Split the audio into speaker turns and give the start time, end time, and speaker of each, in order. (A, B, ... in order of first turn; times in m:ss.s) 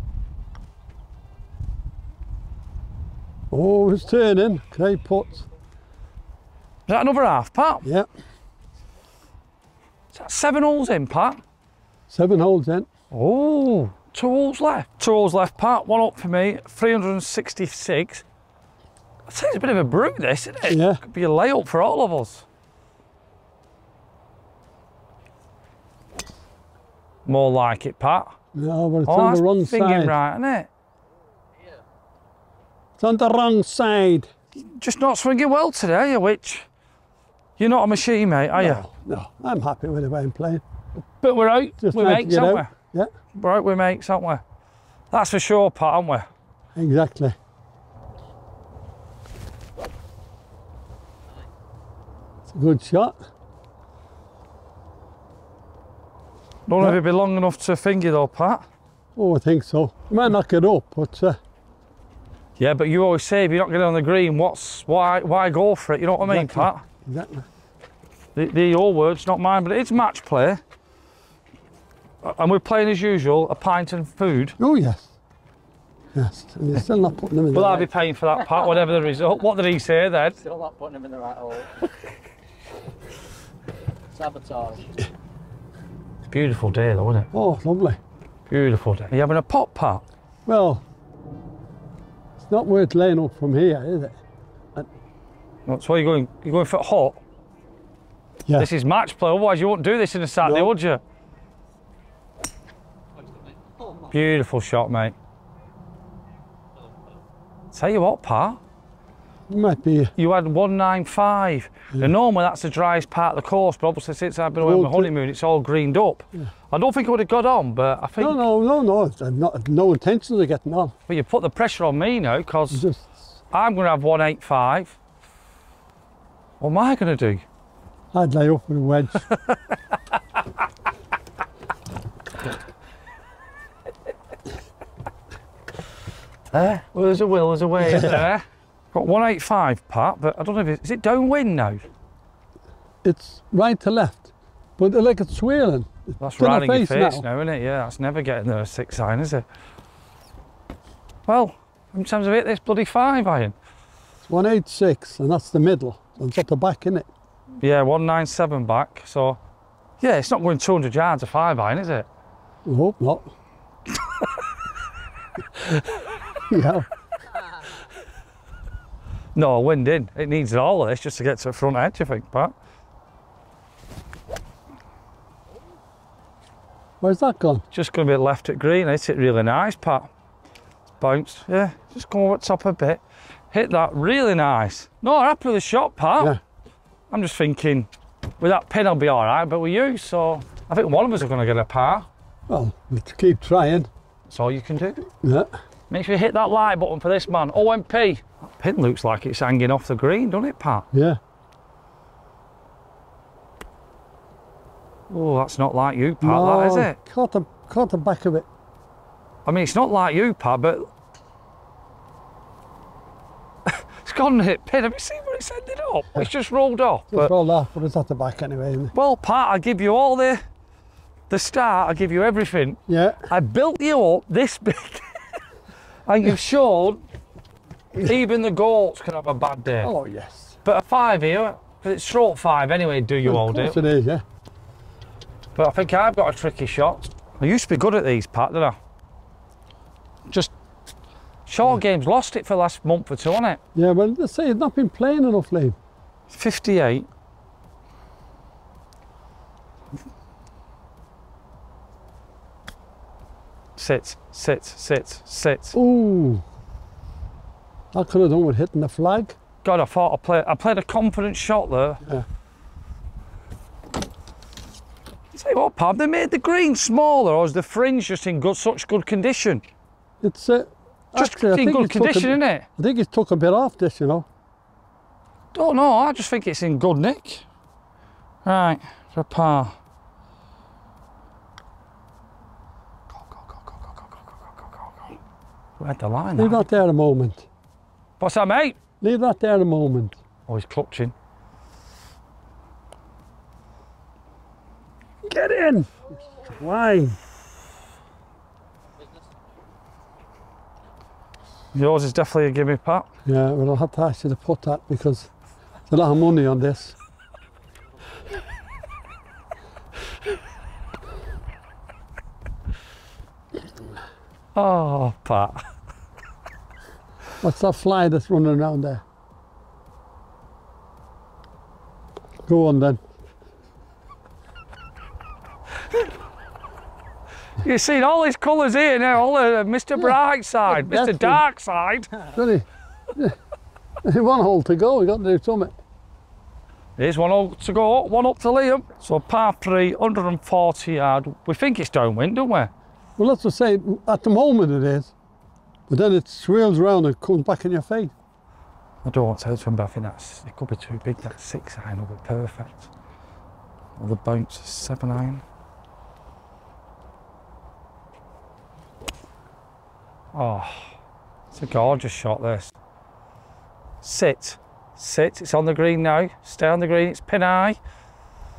0:03.5-0:05.5 A
0:06.9-0:07.8 B
0:07.8-0:08.1 A
0:10.1-0:11.4 B
0:12.1-0:12.9 A
0:13.1-0:18.2 B
0:19.3-0:22.5 B
0:20.7-0:21.0 A
0:27.3-0:28.4 B
0:28.6-0:30.2 A
0:29.1-0:30.7 B
0:33.0-0:34.3 A
0:34.7-0:36.7 B
0:37.6-0:38.8 B
0:38.6-0:40.6 A
0:41.2-0:42.7 B
0:41.8-0:43.1 A
0:43.4-0:44.4 B
0:45.1-0:46.3 B
0:46.8-0:47.4 A
0:52.5-0:53.2 A
0:56.7-0:58.7 B
0:59.2-1:01.4 A
1:02.6-1:06.8 B
1:06.2-1:07.5 A
1:08.4-1:10.6 B
1:12.2-1:14.6 B
1:14.6-1:15.1 A
1:16.2-1:17.9 A
1:17.5-1:20.4 B
1:20.4-1:21.9 C
1:24.1-1:24.8 C
1:26.3-1:27.3 B
1:27.3-1:28.0 A
1:28.5-1:30.0 B
1:30.5-1:30.8 A
1:32.4-1:34.2 A
1:35.7-1:37.2 B
1:38.6-1:41.0 B
1:40.4-1:40.7 A
1:44.1-1:45.2 B
1:47.7-1:48.6 B
1:49.5-1:50.1 A
1:50.2-1:58.4 B
1:54.6-1:55.1 A
1:58.2-2:00.9 A
2:01.1-2:02.8 B
2:02.7-2:03.2 A
2:03.5-2:05.0 B
2:06.6-2:07.4 B
2:08.1-2:09.2 A
2:16.5-2:21.8 B
2:17.8-2:18.3 A
2:23.0-2:27.2 A
2:26.2-2:29.4 B
2:31.3-2:33.6 B
2:34.2-2:37.1 A
2:37.6-2:39.4 B
2:40.0-2:42.1 B
2:42.6-2:43.3 A
2:46.5-2:46.9 A
2:49.4-2:52.5 B
2:57.0-2:57.6 A
2:57.7-3:00.1 B
3:01.0-3:06.4 B
3:07.1-3:07.9 B
3:08.4-3:12.1 B
3:12.5-3:13.9 A
3:14.3-3:15.0 B
3:15.2-3:15.5 A
3:15.9-3:20.9 B
3:20.9-3:21.2 A
3:25.1-3:27.0 B
3:26.2-3:28.5 A
3:29.4-3:30.9 B
3:33.7-3:37.3 B
3:37.1-3:38.9 A
3:38.9-3:40.4 B
3:41.3-3:45.2 B
3:42.9-3:43.3 A
3:46.1-3:47.0 B
3:48.0-3:49.9 B
3:49.8-3:50.6 A
3:50.6-3:53.8 B
3:53.2-3:54.2 A
3:55.6-3:58.8 B
4:01.5-4:03.6 B
4:03.8-4:05.8 A
4:06.3-4:07.1 B
4:13.8-4:15.8 B
4:15.7-4:16.4 A
4:17.9-4:19.4 A
4:19.6-4:22.0 B
4:25.3-4:29.6 B
4:30.2-4:34.3 A
4:31.2-4:32.7 B
4:35.5-4:37.5 B
4:38.4-4:39.7 B
4:43.2-4:45.2 B
4:45.8-4:46.6 B
4:46.4-4:47.5 A
4:48.2-4:48.8 B
4:49.0-4:50.2 A
4:50.5-4:51.1 B
4:55.2-4:57.2 A
5:01.7-5:03.1 B
5:03.2-5:05.3 A
5:05.9-5:07.0 A
5:14.6-5:15.6 B
5:17.4-5:19.0 A
5:22.5-5:23.0 A
5:27.6-5:32.3 B
5:30.7-5:31.4 A
5:32.3-5:33.4 A
5:34.0-5:35.7 A
5:37.0-5:42.7 B
5:43.2-5:45.1 A
5:45.9-5:48.1 A
5:49.0-5:52.9 B
5:54.0-5:55.4 B
6:00.3-6:00.9 B
6:01.5-6:02.7 B
6:04.0-6:07.8 B